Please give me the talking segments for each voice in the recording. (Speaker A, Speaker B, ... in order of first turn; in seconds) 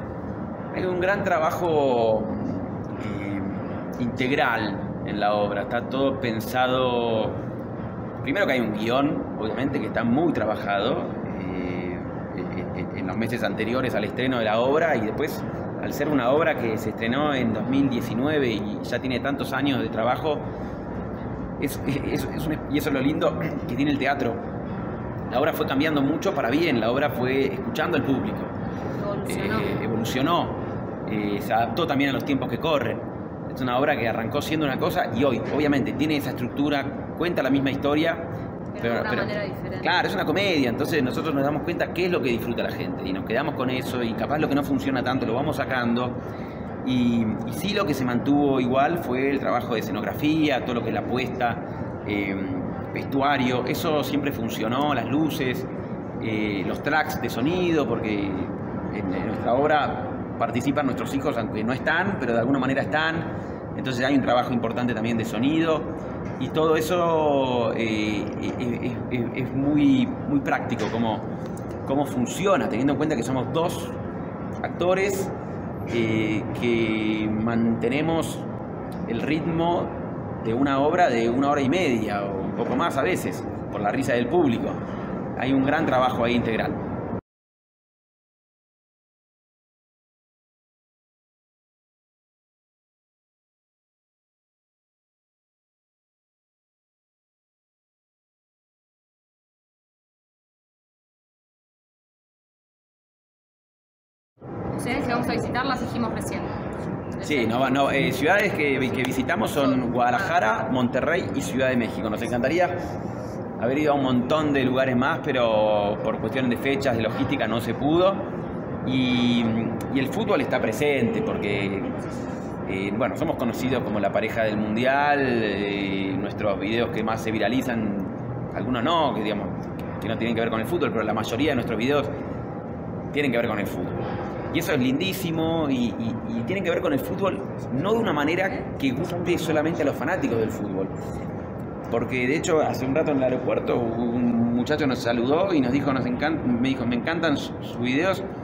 Speaker A: 0.7-7.4, 8.2-20.5, 21.6-24.4, 25.3-28.5, 29.2-46.2, 46.8-55.7, 56.2-71.3, 71.8-74.0, 74.6-75.3, 75.9-78.5, 79.1-84.8, 85.3-86.8, 107.2-112.8, 113.6-118.3, 118.8-122.0, 122.7-132.1, 133.1-141.1, 141.9-148.2
Speaker B: 29.0-29.7, 38.7-40.0, 104.7-106.5, 107.2-107.9, 109.5-110.3